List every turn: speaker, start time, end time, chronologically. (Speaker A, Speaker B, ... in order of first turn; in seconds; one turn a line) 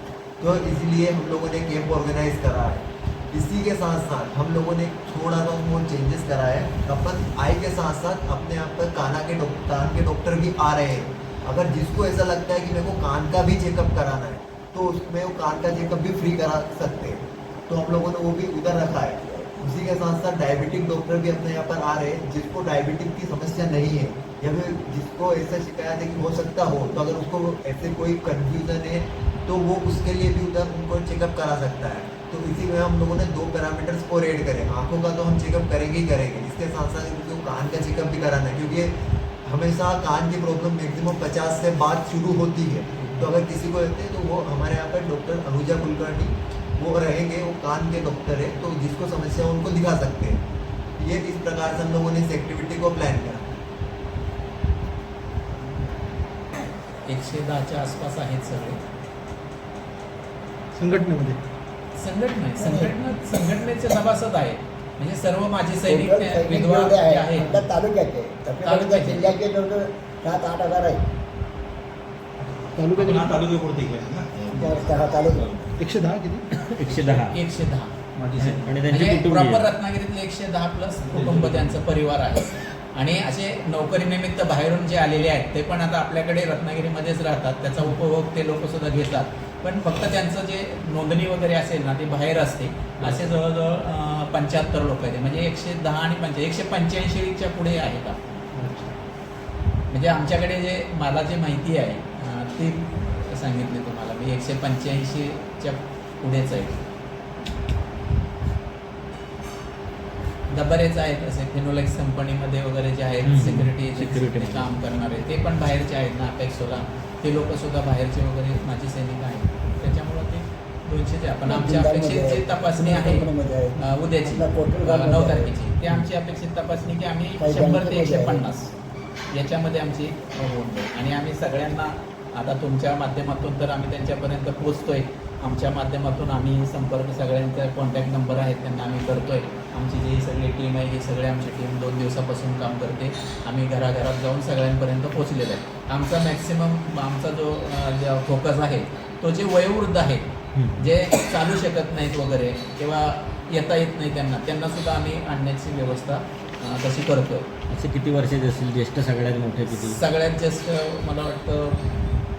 Speaker A: 0.4-50.4
Speaker A: 51.0-53.4
Speaker B: 57.0-58.8
Speaker C: 60.7-61.4
Speaker B: 62.0-67.6
Speaker D: 62.6-62.9
Speaker D: 65.9-71.0
Speaker B: 68.6-69.3
Speaker E: 72.4-75.8
Speaker C: 72.8-73.5
Speaker D: 74.5-75.5
Speaker C: 75.8-76.5
Speaker F: 76.6-77.4
Speaker E: 76.8-77.2
Speaker B: 77.3-77.9
Speaker E: 78.1-78.8
Speaker F: 78.4-79.7
Speaker B: 78.9-98.2
Speaker E: 81.1-81.7
Speaker C: 98.6-98.9
Speaker B: 99.9-106.8
Speaker B: 110.5-123.3
Speaker F: 113.2-114.7
Speaker D: 121.5-125.5
Speaker B: 123.8-128.7
Speaker D: 127.4-128.4
Speaker B: 129.3-157.5
Speaker F: 157.7-160.0
Speaker B: 159.7-161.8